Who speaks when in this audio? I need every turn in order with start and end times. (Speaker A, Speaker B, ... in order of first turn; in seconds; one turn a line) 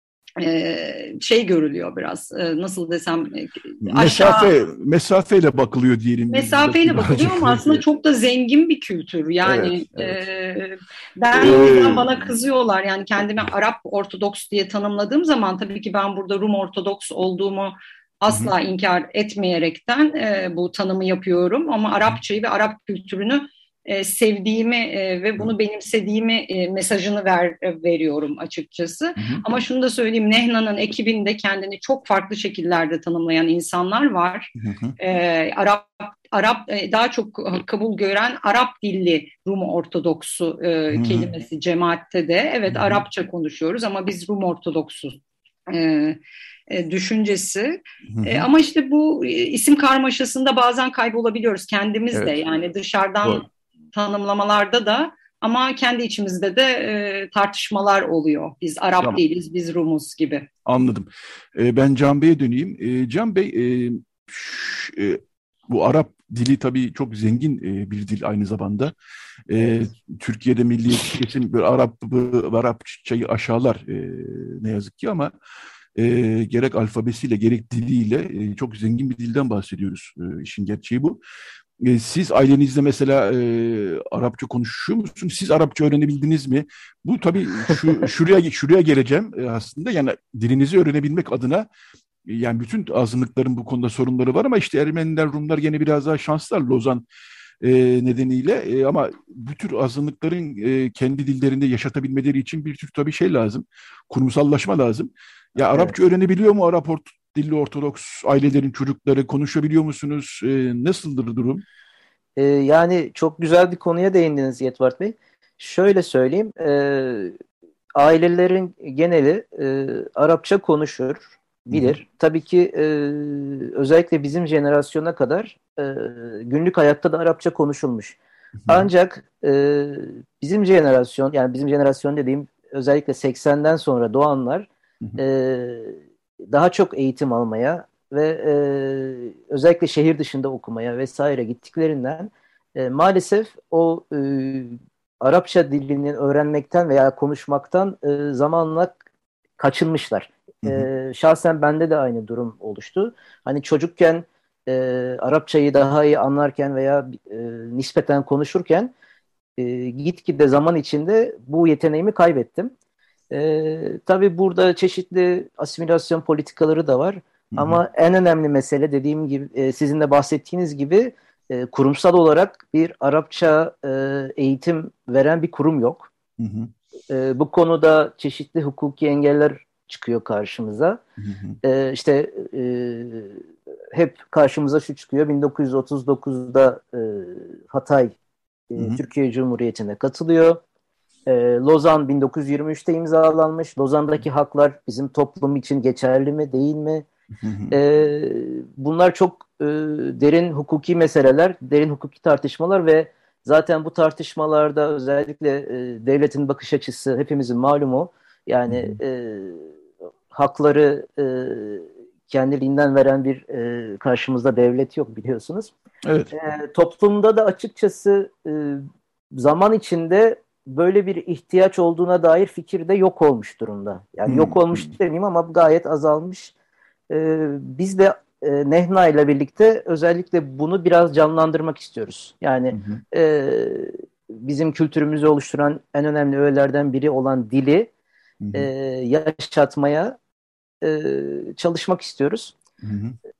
Speaker A: 0.4-4.5
Speaker B: 3.8-7.8
Speaker A: 6.3-46.2
Speaker B: 9.4-10.2
Speaker B: 11.3-12.3
Speaker B: 18.3-18.5
Speaker B: 29.2-29.4
Speaker B: 34.6-35.0
Speaker B: 40.9-41.3
Speaker B: 42.7-43.0
Speaker A: 46.7-60.5
Speaker B: 48.1-48.5
Speaker B: 52.1-52.4
Speaker B: 60.7-68.9
Speaker B: 69.5-75.3
Speaker B: 76.0-81.2
Speaker B: 81.8-91.7
Speaker B: 92.2-97.0
Speaker B: 97.6-111.6
Speaker C: 112.4-117.4
Speaker C: 118.0-128.2
Speaker B: 121.7-122.0
Speaker B: 128.6-128.9
Speaker C: 128.7-149.0
Speaker C: 149.6-158.9
Speaker B: 150.6-150.9
Speaker C: 159.6-162.7
Speaker C: 163.3-176.1
Speaker B: 167.5-167.8
Speaker B: 176.4-176.7
Speaker C: 177.1-181.0
Speaker B: 181.2-181.6
Speaker C: 181.6-188.2
Speaker C: 188.7-190.6
Speaker B: 188.8-189.0
Speaker C: 191.3-197.1
Speaker B: 197.4-197.8
Speaker C: 197.7-209.7
Speaker B: 208.7-209.0
Speaker C: 210.3-215.7
Speaker B: 216.0-216.3
Speaker C: 216.3-226.5
Speaker B: 224.3-224.9
Speaker C: 227.1-237.9
Speaker B: 232.7-233.0
Speaker B: 238.4-238.7
Speaker C: 238.6-240.2
Speaker C: 240.8-242.6
Speaker B: 242.8-243.2